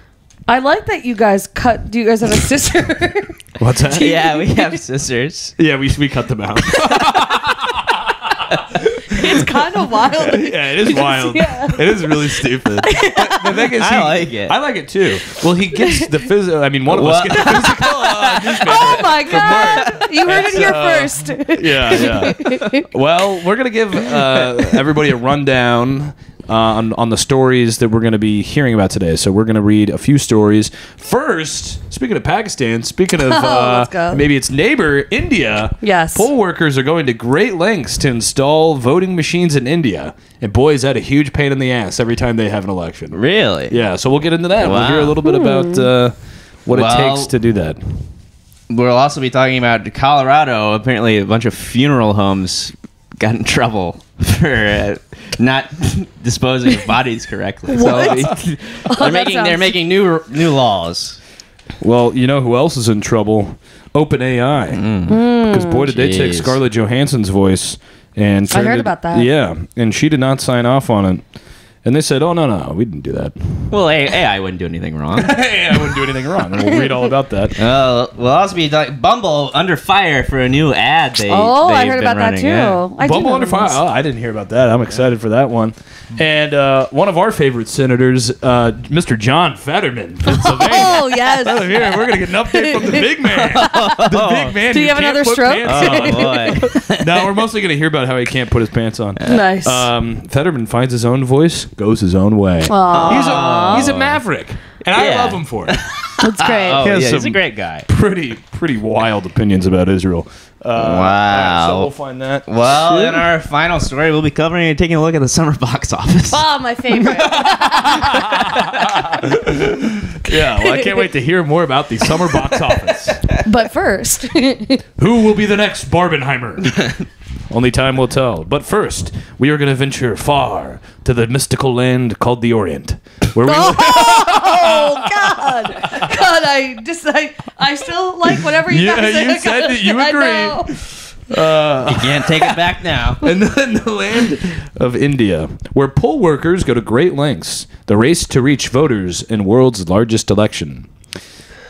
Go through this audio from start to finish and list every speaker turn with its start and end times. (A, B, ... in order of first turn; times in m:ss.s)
0:00.5-0:04.8 A
0:03.6-0:04.2 B
0:04.0-0:05.6 C
0:05.6-0:48.0 B
0:06.7-0:07.2 A
0:09.1-0:13.6 A
0:13.6-0:14.6 C
0:16.9-0:20.5 C
0:18.5-0:22.9 A
0:24.4-0:24.8 C
0:33.2-0:34.2 A
0:35.8-0:36.3 A
0:43.1-0:43.8 C
0:44.6-0:45.2 C
0:45.2-0:45.9 A
0:46.7-0:47.3 C
0:48.7-1:01.2 C
0:57.7-0:59.7 A
0:57.8-0:58.4 B
1:01.8-1:11.3 B
1:04.7-1:05.2 C
1:05.1-1:05.9 A
1:05.9-1:06.6 C
1:08.5-1:09.3 A
1:11.8-1:13.7 B
1:13.7-1:15.4 C
1:15.2-1:17.6 B
1:16.6-1:17.0 A
1:17.6-1:22.8 C
1:21.3-1:23.8 A
1:23.0-1:45.8 B
1:30.3-1:34.1 A
1:33.2-1:34.6 C
1:34.7-1:36.6 A
1:35.6-1:37.3 C
1:39.2-1:39.9 A
1:42.7-1:44.0 A
1:42.9-1:44.2 C
1:44.9-1:47.9 C
1:46.2-1:46.8 A
1:46.8-1:53.3 B
1:50.8-1:51.9 C
1:52.5-1:56.5 C
1:56.3-1:58.3 A
1:57.1-2:03.2 B
2:03.1-2:03.4 C
2:03.4-2:04.8 A
2:05.0-2:06.8 B
2:07.5-2:16.2 B
2:13.4-2:20.7 A
2:18.6-2:22.6 B
2:21.9-2:23.2 C
2:23.2-2:30.9 B